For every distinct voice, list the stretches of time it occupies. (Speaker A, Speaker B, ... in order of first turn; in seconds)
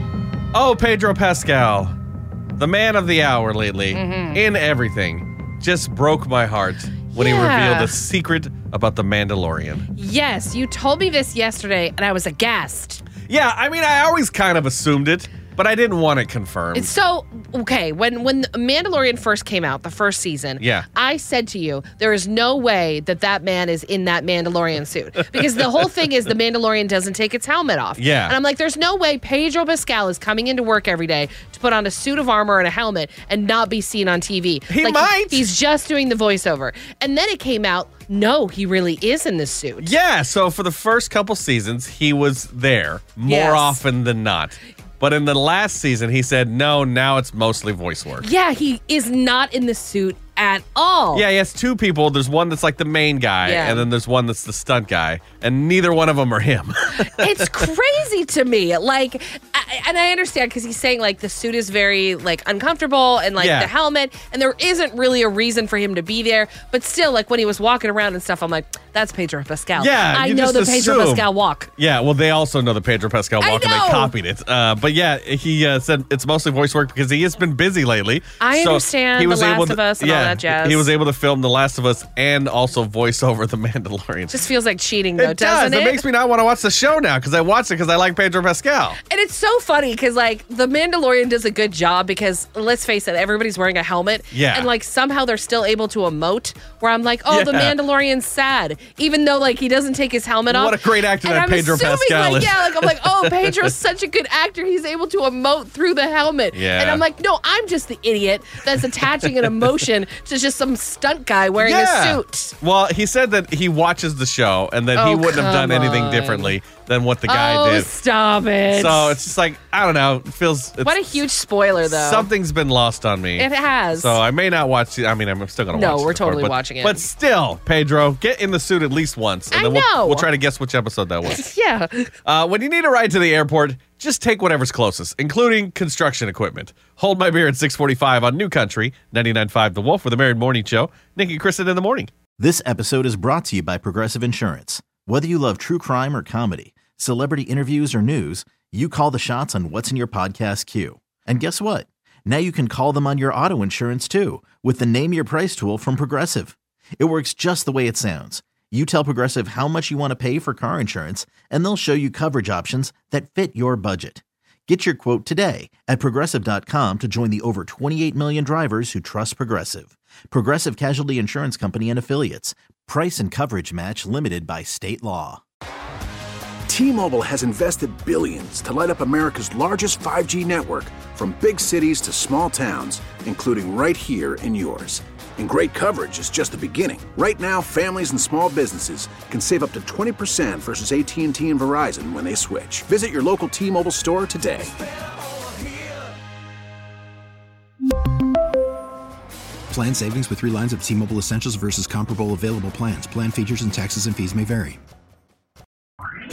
Speaker A: 0.5-1.9, 2.6-9.9, 13.2-16.9, 20.6-20.9, 25.3-25.6, 28.0-28.4, 34.7-35.5, 39.8-48.3, 51.1-57.6, 63.4-63.7, 69.8-84.5, 85.2-89.0, 94.3-94.7, 97.3-97.8, 100.5-103.7, 106.5-107.0, 111.6-117.9, 118.7-121.2, 121.8-131.4, 132.2-142.1
Speaker B: 3.9-4.4, 7.1-8.0, 9.9-13.1, 16.7-39.9, 43.2-43.8, 48.2-51.2, 53.4-53.9, 57.2-71.7, 73.4-74.1, 78.4-80.9, 84.3-86.0, 89.1-112.5, 115.0-116.5, 117.3-119.2, 120.8-122.3, 123.4-124.2, 125.7-127.1, 129.5-130.2, 131.2-132.1
Speaker C: 142.4-175.4
Speaker D: 176.7-194.7
Speaker E: 199.7-204.8